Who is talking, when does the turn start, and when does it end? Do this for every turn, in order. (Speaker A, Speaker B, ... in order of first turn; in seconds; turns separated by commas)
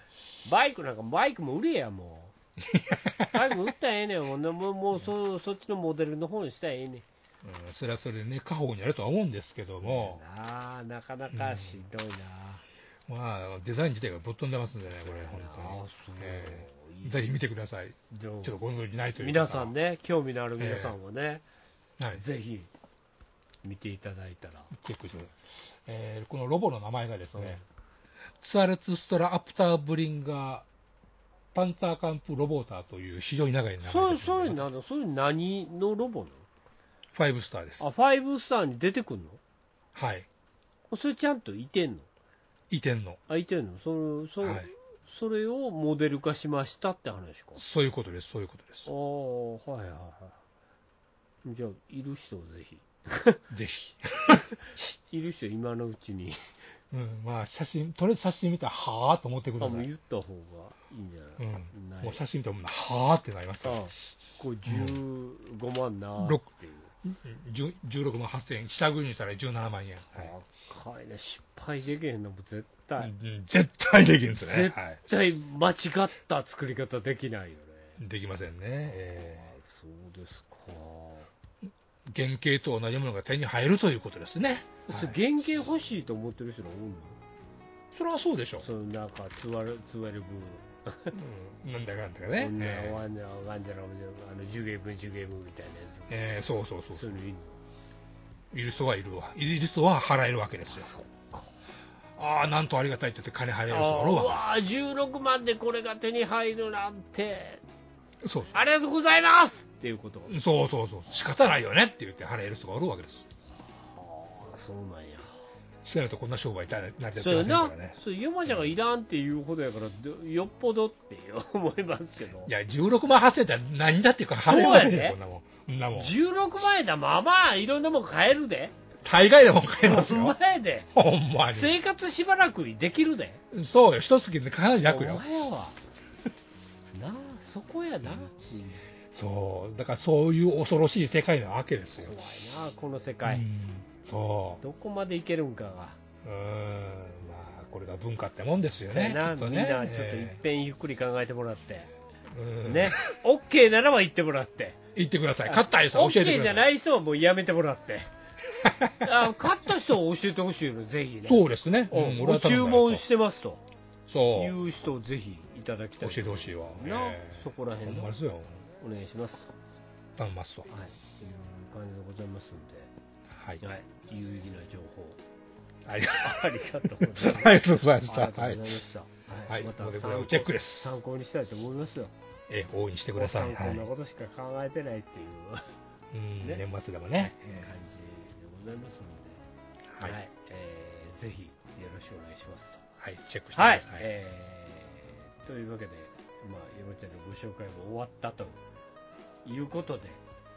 Speaker A: 0.5-2.3, Speaker B: 2.7-3.5, Speaker A: 3.3-7.0, Speaker B: 7.4-10.2, Speaker A: 9.8-12.6, Speaker B: 11.3-11.8, Speaker B: 13.1-19.7, Speaker A: 14.9-17.2, Speaker A: 18.1-18.5, Speaker A: 19.2-21.4, Speaker B: 20.6-21.0, Speaker A: 22.1-22.7, Speaker A: 23.6-24.7, Speaker B: 24.7-27.6, Speaker A: 27.3-27.6, Speaker B: 28.4-30.7, Speaker B: 31.5-34.7, Speaker A: 33.8-36.5, Speaker B: 37.1-37.8, Speaker A: 37.8-39.4, Speaker B: 40.0-40.3, Speaker A: 40.9-42.1, Speaker B: 42.7-43.2, Speaker A: 43.3-47.6, Speaker B: 44.4-44.7, Speaker B: 47.6-48.9, Speaker A: 48.9-50.4, Speaker A: 51.4-53.4, Speaker B: 53.5-54.5, Speaker A: 55.1-56.4, Speaker B: 56.9-59.9, Speaker A: 59.6-62.2, Speaker B: 61.4-63.8, Speaker A: 63.6-66.9, Speaker B: 64.7-65.0, Speaker B: 66.2-66.5, Speaker B: 67.0-70.3, Speaker A: 70.1-73.1, Speaker B: 73.0-75.0, Speaker A: 74.4-78.0, Speaker B: 78.0-79.5, Speaker A: 78.9-81.3, Speaker B: 82.1-85.2, Speaker A: 84.9-87.2, Speaker B: 87.9-88.7, Speaker A: 88.6-91.1, Speaker B: 91.1-93.0, Speaker A: 92.4-96.1, Speaker B: 96.1-97.2, Speaker A: 96.9-97.6, Speaker B: 98.5-100.9, Speaker A: 100.7-101.5, Speaker B: 102.2-104.6, Speaker A: 103.7-107.6, Speaker B: 108.2-108.6, Speaker A: 108.5-110.3, Speaker B: 110.3-113.3, Speaker A: 113.7-115.3, Speaker B: 115.8-118.7, Speaker A: 117.2-122.5, Speaker B: 122.5-126.1, Speaker A: 124.4-125.2, Speaker A: 125.9-128.7, Speaker B: 129.0-130.4, Speaker A: 129.8-130.9, Speaker B: 130.9-131.8, Speaker A: 131.5-133.4, Speaker B: 133.5-135.2, Speaker A: 134.9-135.8, Speaker A: 136.9-138.8, Speaker B: 138.0-138.3, Speaker B: 139.1-142.2, Speaker A: 142.0-143.4, Speaker B: 143.2-144.6, Speaker A: 144.6-146.0, Speaker B: 146.2-150.4, Speaker A: 148.8-151.9, Speaker B: 152.3-153.0, Speaker A: 152.7-154.8, Speaker B: 154.9-156.7, Speaker A: 155.5-158.1, Speaker B: 158.6-159.1, Speaker A: 159.0-163.6, Speaker B: 161.3-163.0, Speaker B: 164.1-164.6, Speaker A: 164.3-168.2, Speaker B: 166.0-168.6, Speaker A: 168.8-169.5, Speaker B: 170.2-170.7, Speaker A: 170.7-172.9, Speaker B: 173.3-173.6, Speaker A: 173.6-175.2, Speaker B: 175.9-178.7, Speaker A: 176.2-182.1, Speaker B: 179.5-180.9, Speaker B: 182.5-183.8, Speaker A: 183.2-185.7, Speaker B: 186.1-187.7, Speaker A: 187.2-189.4, Speaker B: 189.9-190.2, Speaker A: 190.0-192.8, Speaker B: 193.0-194.1, Speaker A: 193.6-198.6, Speaker A: 199.4-200.2